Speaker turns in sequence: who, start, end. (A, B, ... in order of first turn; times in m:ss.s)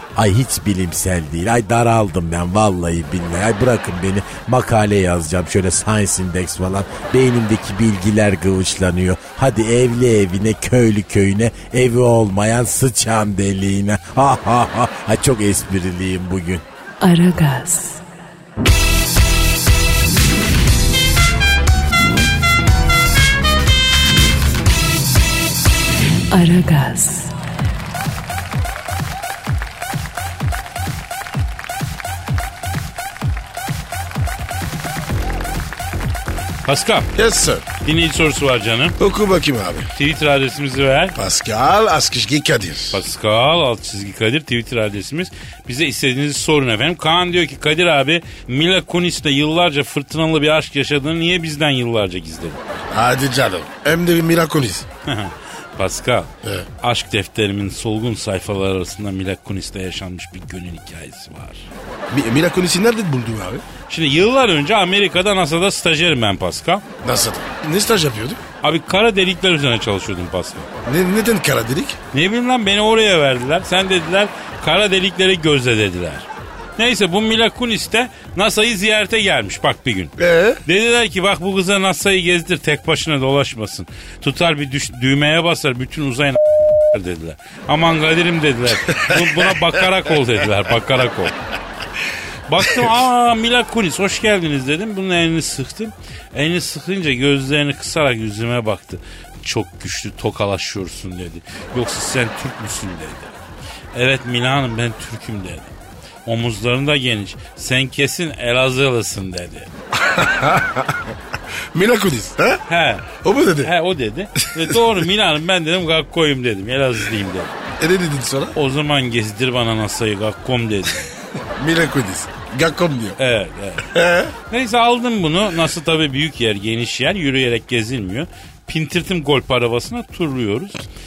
0:00.2-0:16.6 A
0:17.0-0:18.0 B
0:26.3-0:27.3 B
0:36.6-0:37.1 C
0:37.2-0:37.7 D
0:37.8-0:39.0 C
0:39.0-0:39.9 D
0:40.0-0:41.2 C
0:41.2-0:43.0 D
0:42.9-0:52.6 C
0:52.9-0:54.9 D
0:55.1-0:56.3 C
0:56.8-1:01.7 C
1:02.1-1:03.6 D
1:03.9-1:06.8 C
1:07.0-1:08.4 D
1:08.6-1:10.7 C
1:10.8-1:12.0 D
1:12.1-1:20.1 C
1:20.2-1:20.6 D
1:20.6-1:31.4 C
1:28.8-1:29.5 D
1:32.5-1:43.3 C
1:43.9-1:45.7 C
1:46.3-1:49.7 C
1:50.0-1:51.0 D
1:51.7-1:52.6 D
1:52.7-1:57.5 C
1:53.2-1:53.7 D
1:54.4-1:54.8 D
1:57.8-1:58.6 D
1:58.6-2:01.1 C
2:01.6-2:03.2 D
2:03.2-2:03.9 C
2:03.9-2:04.3 D
2:04.5-2:10.8 C